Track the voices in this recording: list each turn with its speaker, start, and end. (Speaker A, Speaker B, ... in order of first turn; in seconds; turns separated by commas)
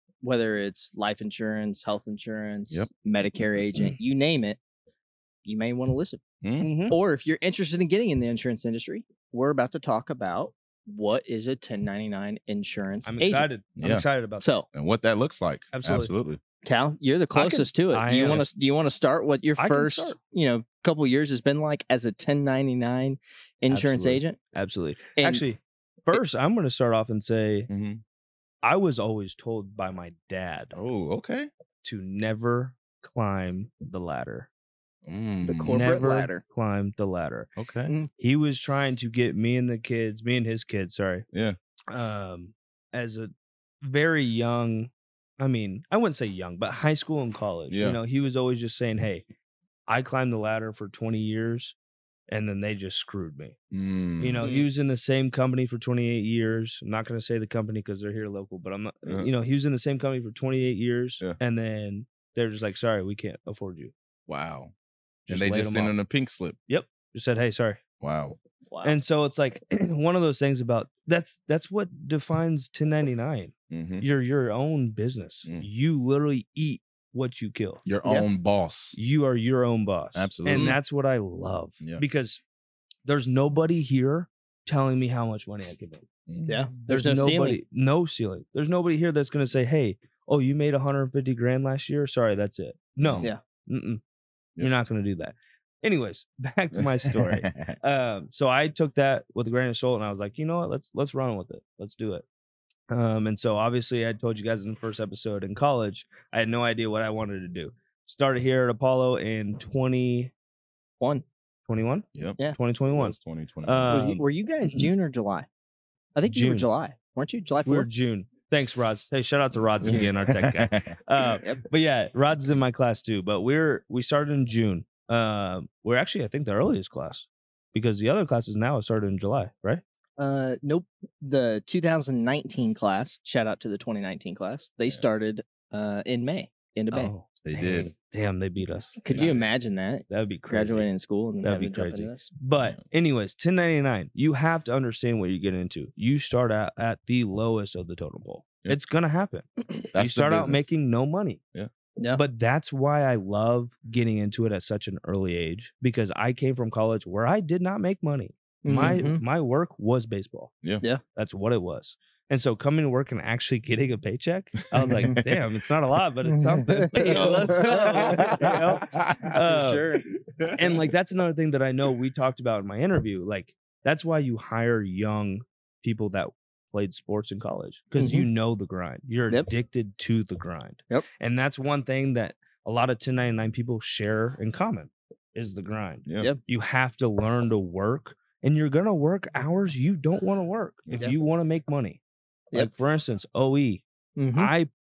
Speaker A: 0.2-4.6, Speaker B: 3.6-3.9, Speaker A: 5.4-6.2, Speaker B: 6.4-6.9, Speaker C: 6.6-7.0, Speaker A: 6.9-13.5, Speaker C: 13.1-14.5, Speaker B: 13.8-14.1, Speaker A: 14.4-14.7, Speaker B: 14.7-16.4, Speaker C: 15.7-16.1, Speaker A: 16.6-24.4, Speaker C: 17.3-18.4, Speaker C: 19.6-20.2, Speaker C: 23.7-27.7, Speaker A: 25.2-25.4, Speaker B: 27.7-28.0, Speaker C: 28.6-30.8, Speaker B: 30.7-31.5, Speaker C: 31.8-34.5, Speaker B: 35.0-35.9, Speaker A: 35.4-36.4, Speaker C: 35.7-37.5, Speaker B: 37.6-37.9, Speaker C: 38.2-41.2, Speaker B: 41.3-41.6, Speaker C: 41.9-43.3, Speaker C: 43.8-49.2, Speaker B: 47.7-48.0, Speaker C: 49.9-51.8, Speaker C: 52.3-53.5, Speaker B: 53.7-54.5, Speaker C: 54.2-63.9, Speaker A: 54.4-54.7, Speaker B: 59.0-59.3, Speaker B: 64.3-64.7, Speaker C: 65.3-66.0, Speaker B: 65.3-66.6, Speaker C: 66.7-67.8, Speaker B: 68.0-68.4, Speaker A: 68.7-69.0, Speaker C: 68.8-77.8, Speaker B: 73.7-74.0, Speaker B: 77.8-79.0, Speaker C: 78.9-82.4, Speaker B: 80.1-80.8, Speaker A: 80.5-80.8, Speaker C: 83.0-86.0, Speaker B: 86.3-86.6, Speaker A: 86.5-87.6, Speaker C: 86.8-94.0, Speaker B: 93.0-93.3, Speaker C: 94.6-102.2, Speaker B: 96.8-97.8, Speaker C: 102.9-110.3, Speaker C: 111.7-114.2, Speaker B: 112.1-114.1, Speaker A: 113.9-115.5, Speaker A: 116.2-117.9, Speaker C: 116.3-116.7, Speaker C: 117.7-129.8, Speaker B: 119.8-121.0, Speaker A: 130.2-137.1, Speaker C: 136.9-139.4, Speaker B: 137.4-137.9, Speaker A: 139.0-142.3, Speaker C: 140.1-140.9, Speaker C: 141.4-151.4, Speaker B: 149.9-150.7, Speaker C: 152.1-160.5, Speaker A: 158.6-159.2, Speaker C: 161.1-169.8, Speaker B: 164.7-165.4, Speaker A: 166.3-168.5, Speaker B: 167.0-169.4, Speaker A: 169.3-170.1, Speaker B: 170.2-170.8, Speaker C: 170.6-192.0, Speaker A: 178.0-178.3, Speaker B: 186.1-186.3, Speaker C: 192.5-194.7, Speaker A: 194.2-194.5